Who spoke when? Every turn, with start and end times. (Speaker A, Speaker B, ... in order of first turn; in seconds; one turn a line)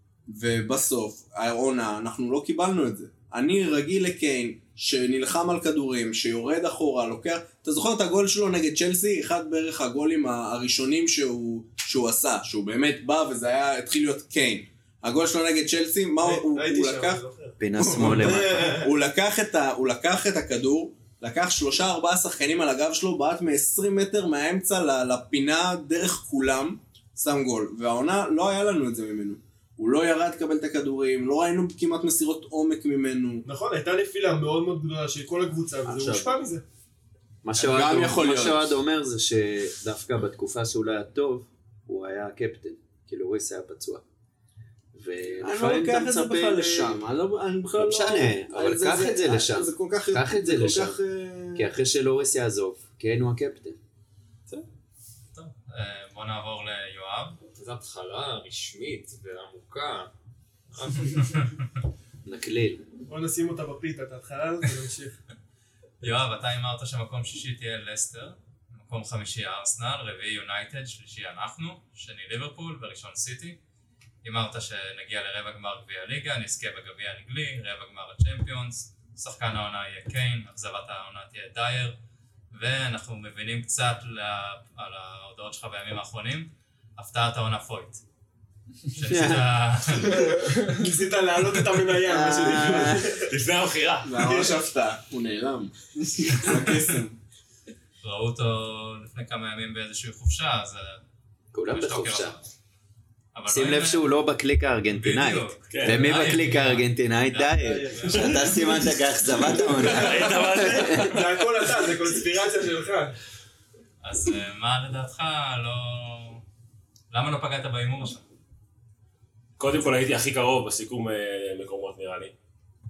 Speaker A: 0.3-17.2
Speaker B: 16.2-18.9
Speaker C: 17.6-18.8
Speaker A: 17.8-33.5
Speaker B: 33.4-36.6
Speaker C: 35.9-36.4
Speaker C: 37.4-44.0
Speaker A: 37.5-38.8
Speaker C: 44.9-47.0
Speaker A: 45.4-51.7
Speaker C: 47.8-51.0
Speaker C: 51.5-53.8
Speaker D: 55.3-57.4
Speaker E: 57.5-60.1
Speaker E: 60.7-61.4
Speaker D: 61.1-61.6
Speaker C: 62.2-62.9
Speaker B: 63.1-65.2
Speaker D: 66.0-73.6
Speaker D: 74.2-82.0
Speaker D: 82.5-88.0
Speaker D: 88.9-90.6
Speaker C: 89.0-89.5
Speaker B: 90.0-93.3
Speaker C: 92.0-93.0
Speaker F: 93.2-94.2
Speaker A: 94.0-97.2
Speaker B: 94.2-94.6
Speaker D: 96.3-96.9
Speaker D: 98.0-101.0
Speaker C: 101.5-102.3
Speaker D: 101.7-102.5
Speaker D: 103.3-104.1
Speaker C: 103.5-111.1
Speaker D: 104.9-108.7
Speaker F: 105.7-106.3
Speaker B: 107.5-108.8
Speaker B: 109.4-113.1
Speaker F: 109.8-111.4
Speaker D: 114.0-116.4
Speaker D: 117.1-118.2
Speaker F: 119.6-122.3